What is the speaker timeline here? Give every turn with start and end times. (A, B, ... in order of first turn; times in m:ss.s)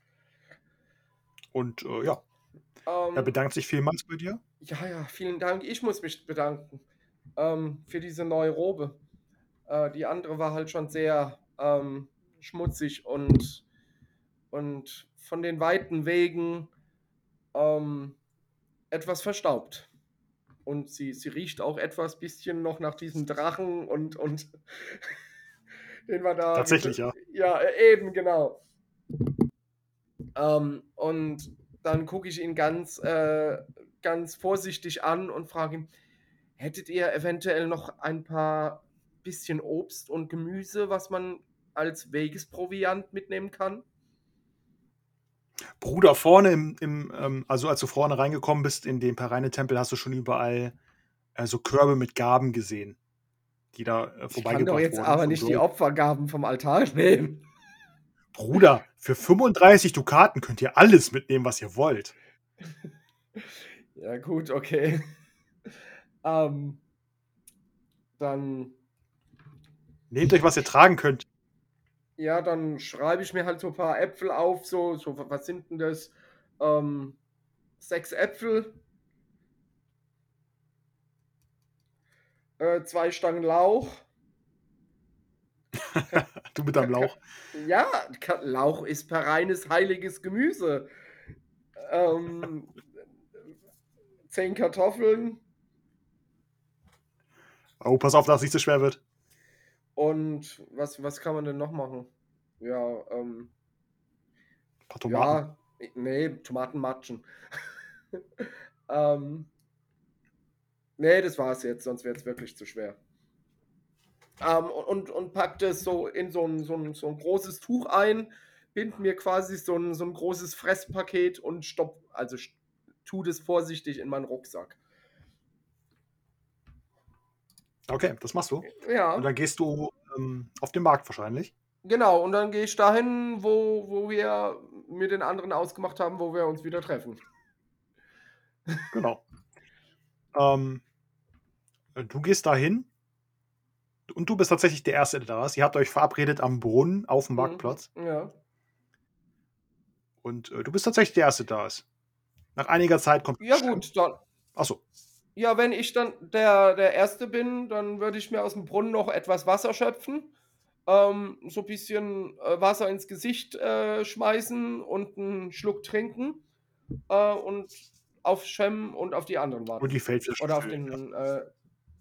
0:01.5-0:02.2 A
0:02.9-0:03.3 B
0:03.2-0:04.4 A
0:04.6-0:06.8 B
0:07.4-0:09.0 B
0:09.7-0:13.6 B
0:14.5-0:16.7 B
0:17.5-0:18.2 B
0:18.9-0:19.9 B
0:20.7-0:25.1 B
0:26.1-0:28.6 B
0:26.6-0:27.2 A
0:30.4-0:35.9 B
0:36.6-0:43.8 B
0:45.8-0:50.8 A
0:51.4-0:53.0 A
0:53.7-0:55.6 A
0:54.3-0:57.4 B
0:58.3-1:02.1 A
1:03.4-1:05.0 B
1:06.2-1:06.8 B
1:08.2-1:08.8 B
1:10.1-1:11.2 A
1:12.2-1:17.2 B
1:17.8-1:18.8 B
1:22.6-1:24.0 B
1:25.8-1:27.2 A
1:26.8-1:30.9 B
1:31.8-1:32.8 B
1:34.3-1:35.4 B
1:37.8-1:39.0 A
1:40.0-1:42.1 B
1:42.6-1:43.5 B
1:44.9-1:45.4 A
1:45.1-1:47.3 B
1:48.1-1:49.5 B
1:51.0-1:53.0 B
1:54.4-2:04.8 B
2:07.9-2:11.5 A
2:08.8-2:09.3 B
2:11.8-2:17.2 B
2:18.9-2:19.2 A
2:20.3-2:20.8 A
2:22.0-2:22.9 A
2:24.1-2:27.9 A
2:27.4-2:28.3 B
2:30.2-2:31.8 A
2:32.6-2:33.8 A
2:33.4-2:34.2 B
2:34.6-2:34.8 A
2:35.4-2:40.3 B
2:40.9-2:46.4 B
2:47.1-2:51.5 B
2:49.8-2:51.0 A